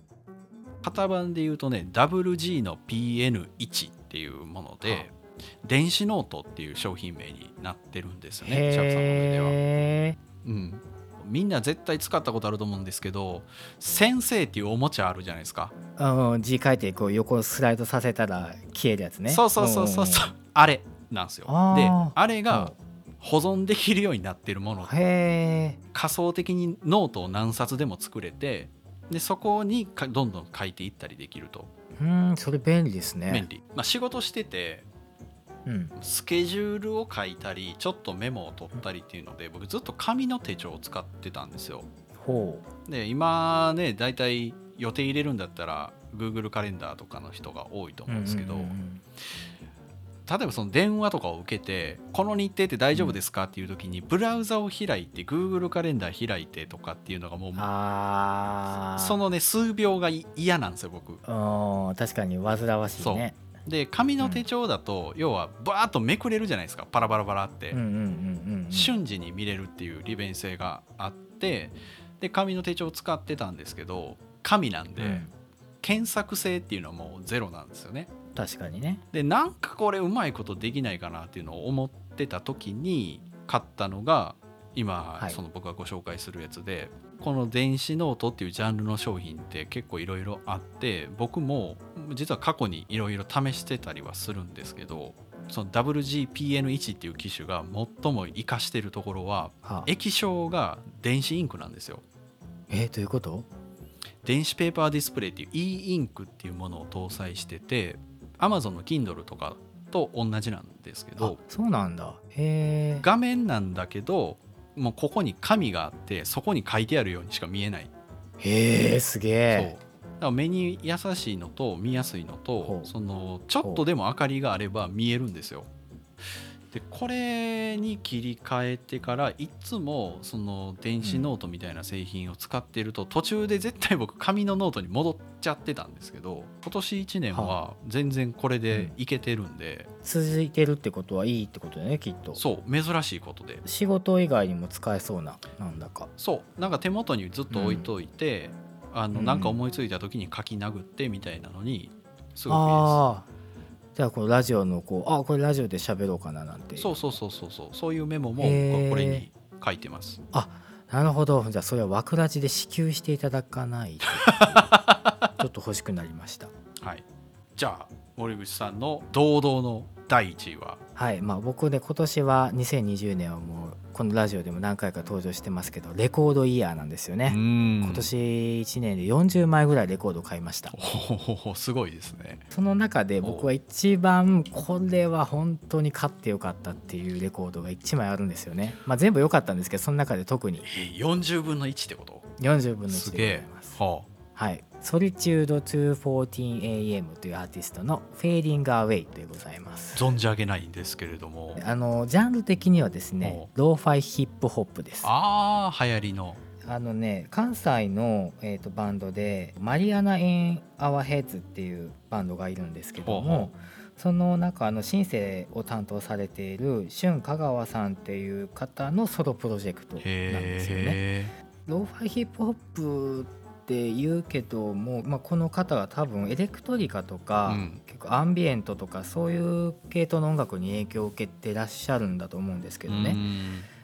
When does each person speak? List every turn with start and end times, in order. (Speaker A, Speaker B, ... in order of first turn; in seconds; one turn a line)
Speaker A: 0.8-9.6
Speaker B: 8.4-10.2
Speaker A: 10.4-15.7
Speaker B: 16.0-20.3
Speaker A: 19.3-24.9
Speaker B: 21.5-22.8
Speaker B: 24.9-25.8
Speaker A: 25.9-31.7
Speaker B: 32.0-33.5
Speaker A: 33.3-34.9
Speaker B: 35.7-36.0
Speaker A: 36.0-41.9
Speaker B: 42.2-42.7
Speaker A: 42.9-48.8
Speaker B: 48.1-49.0
Speaker A: 50.3-57.7
Speaker B: 52.9-53.2
Speaker B: 57.6-59.2
Speaker A: 59.0-61.2
Speaker B: 61.2-63.4
Speaker A: 63.0-67.8
Speaker B: 67.7-68.9
Speaker A: 68.7-75.2
Speaker B: 75.0-75.3
Speaker A: 75.8-78.1
Speaker B: 78.3-79.0
Speaker A: 79.1-102.0
Speaker B: 99.6-99.9
Speaker B: 102.7-103.5
Speaker A: 104.2-111.4
Speaker B: 111.2-113.1
Speaker A: 113.0-117.9
Speaker B: 118.4-119.7
Speaker A: 119.5-125.7
Speaker B: 122.6-122.9
Speaker A: 126.7-139.9
Speaker B: 131.0-131.3
Speaker B: 137.3-137.6
Speaker B: 140.0-142.4
Speaker A: 142.4-143.6
Speaker B: 143.6-146.1
Speaker A: 146.2-153.0
Speaker B: 147.5-147.9
Speaker B: 149.1-149.6
Speaker B: 152.5-153.3
Speaker B: 154.0-157.0
Speaker A: 156.8-160.2
Speaker B: 158.4-159.3
Speaker B: 160.3-164.8
Speaker A: 164.2-165.3
Speaker B: 165.4-166.5
Speaker A: 167.6-170.8
Speaker B: 171.0-180.8
Speaker A: 177.3-178.1
Speaker A: 180.7-182.4
Speaker B: 182.5-190.7
Speaker A: 183.2-183.5
Speaker A: 190.6-192.3
Speaker B: 192.4-193.8
Speaker A: 192.9-194.1
Speaker B: 194.3-200.2
Speaker A: 199.9-201.6
Speaker B: 201.6-205.1
Speaker A: 203.2-203.5
Speaker A: 205.0-206.4
Speaker B: 206.7-221.0
Speaker A: 213.0-213.5
Speaker A: 220.0-221.3
Speaker B: 221.7-233.2
Speaker A: 227.5-227.8
Speaker A: 232.9-233.7